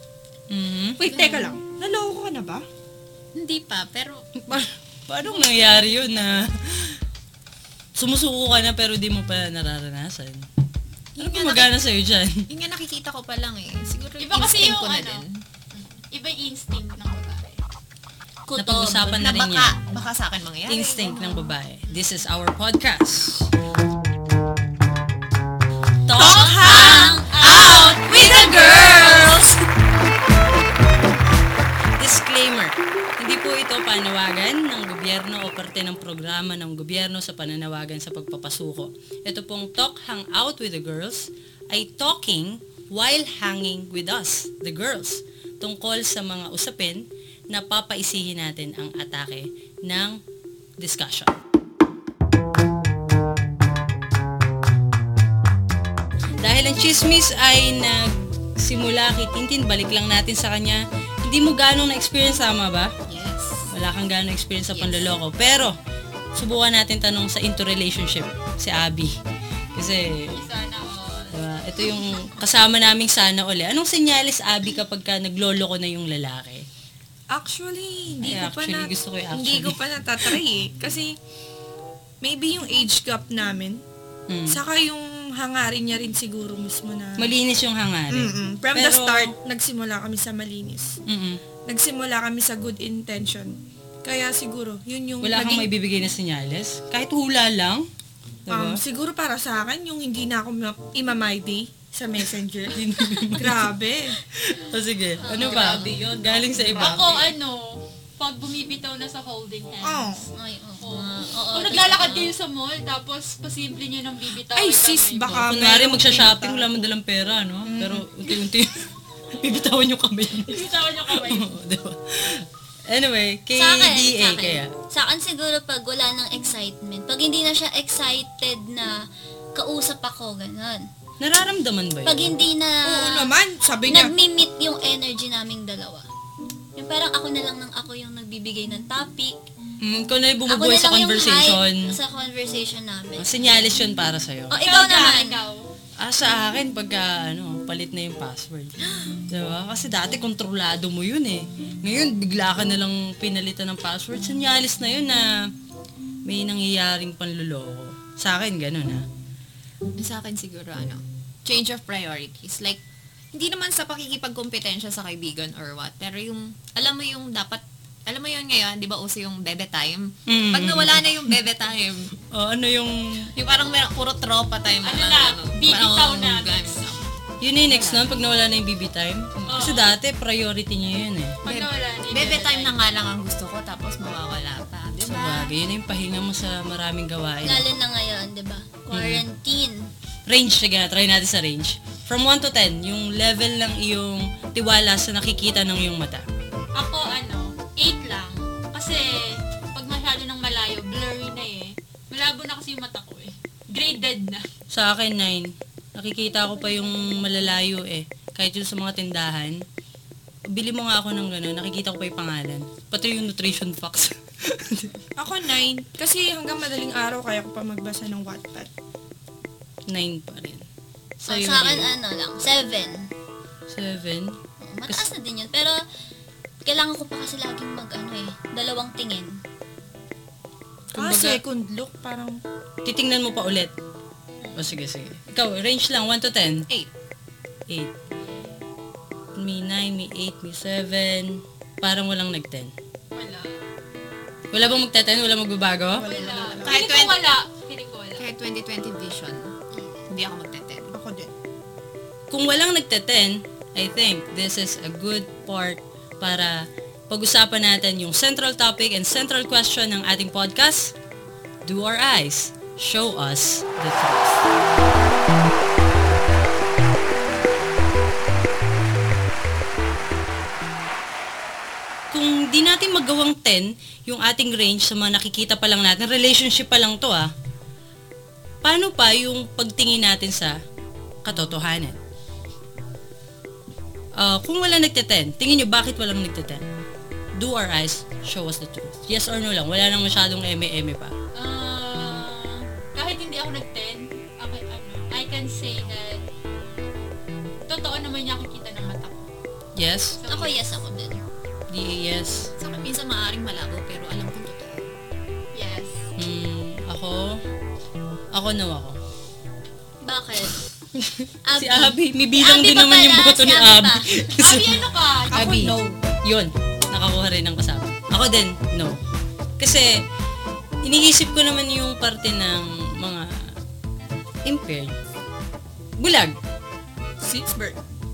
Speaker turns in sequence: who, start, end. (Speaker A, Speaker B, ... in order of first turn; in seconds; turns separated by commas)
Speaker A: 0.5-1.0, Speaker B: 1.0-2.6, Speaker C: 1.1-1.6, Speaker C: 3.3-4.2, Speaker A: 4.4-7.0, Speaker A: 8.0-10.5, Speaker C: 11.2-11.7, Speaker A: 11.2-12.4, Speaker C: 12.5-15.4, Speaker D: 14.2-17.6, Speaker E: 18.4-19.3, Speaker A: 18.5-19.7, Speaker C: 19.1-21.5, Speaker A: 20.7-23.5, Speaker A: 26.1-27.0, Speaker B: 26.1-26.9, Speaker E: 26.5-29.3, Speaker D: 26.6-29.3, Speaker C: 26.8-29.5, Speaker B: 28.4-28.8, Speaker A: 32.0-50.2, Speaker A: 50.8-51.4, Speaker A: 56.4-62.9, Speaker C: 63.0-63.7, Speaker A: 63.7-65.7, Speaker C: 64.7-65.1, Speaker A: 66.3-69.1, Speaker A: 69.7-70.3, Speaker D: 70.3-71.4, Speaker A: 71.3-76.7, Speaker B: 77.3-81.1, Speaker A: 78.2-80.4, Speaker B: 82.2-83.8, Speaker A: 84.3-84.6, Speaker B: 84.5-87.3, Speaker A: 87.2-89.3, Speaker B: 88.1-91.0, Speaker A: 91.1-91.4, Speaker B: 91.7-95.7, Speaker A: 95.2-97.8, Speaker A: 98.5-98.8, Speaker B: 98.5-104.2, Speaker A: 102.7-103.6, Speaker A: 104.3-107.2, Speaker E: 105.2-106.0, Speaker C: 105.3-107.2, Speaker D: 106.7-110.3, Speaker B: 109.8-110.3, Speaker E: 110.3-112.3, Speaker D: 110.8-115.4, Speaker B: 114.5-116.7, Speaker A: 115.3-118.8, Speaker B: 117.6-118.0, Speaker A: 119.4-124.7, Speaker D: 120.4-121.6, Speaker E: 123.5-128.9, Speaker E: 129.5-130.9, Speaker A: 131.2-132.3, Speaker E: 132.0-133.3, Speaker B: 132.8-134.1, Speaker E: 133.8-136.1, Speaker E: 136.7-139.4, Speaker A: 139.8-141.9, Speaker E: 140.4-143.7, Speaker A: 143.2-144.6, Speaker E: 144.5-145.4, Speaker D: 144.6-145.7, Speaker A: 146.0-148.8, Speaker A: 149.3-155.3, Speaker A: 156.2-159.0, Speaker C: 160.0-162.8, Speaker C: 163.3-172.1, Speaker A: 170.3-171.4, Speaker A: 172.2-173.3, Speaker C: 173.3-177.1, Speaker D: 174.8-177.0, Speaker A: 177.4-181.4, Speaker C: 177.6-178.2, Speaker D: 179.5-179.9, Speaker D: 181.4-182.8, Speaker C: 181.4-185.5, Speaker A: 185.0-187.7, Speaker E: 187.4-189.9, Speaker A: 188.9-189.2, Speaker A: 190.2-196.2, Speaker D: 196.7-204.4, Speaker A: 204.7-209.6, Speaker A: 210.5-214.9, Speaker B: 215.2-218.7, Speaker A: 219.9-220.7, Speaker A: 221.2-221.9, Speaker E: 221.2-223.1, Speaker A: 223.7-225.1, Speaker E: 224.6-225.8, Speaker E: 226.6-229.4, Speaker B: 230.9-232.4, Speaker A: 230.9-231.4, Speaker A: 232.8-233.7, Speaker A: 234.5-236.7, Speaker A: 239.3-242.7, Speaker D: 243.1-243.6, Speaker A: 244.5-246.1, Speaker B: 245.9-246.8, Speaker D: 245.9-248.2, Speaker C: 246.6-247.2, Speaker C: 248.2-249.5, Speaker C: 250.1-250.9, Speaker B: 250.9-251.3, Speaker A: 252.3-260.9, Speaker A: 261.6-264.4, Speaker A: 272.1-277.3, Speaker A: 278.6-280.6, Speaker A: 281.2-282.0, Speaker A: 284.1-286.6, Speaker A: 287.4-291.1, Speaker D: 291.3-296.2, Speaker D: 297.7-299.3, Speaker A: 299.8-300.2, Speaker D: 300.2-300.6, Speaker E: 300.3-301.2, Speaker A: 301.7-302.5, Speaker C: 302.6-304.9, Speaker D: 305.5-306.0, Speaker A: 306.2-307.4, Speaker A: 308.3-309.0, Speaker E: 310.0-310.6, Speaker A: 311.0-319.0, Speaker E: 311.4-314.0, Speaker D: 314.3-315.5, Speaker B: 315.3-316.0, Speaker A: 319.6-319.9, Speaker A: 320.8-323.5, Speaker A: 324.4-324.9, Speaker A: 326.0-326.4, Speaker B: 327.2-327.8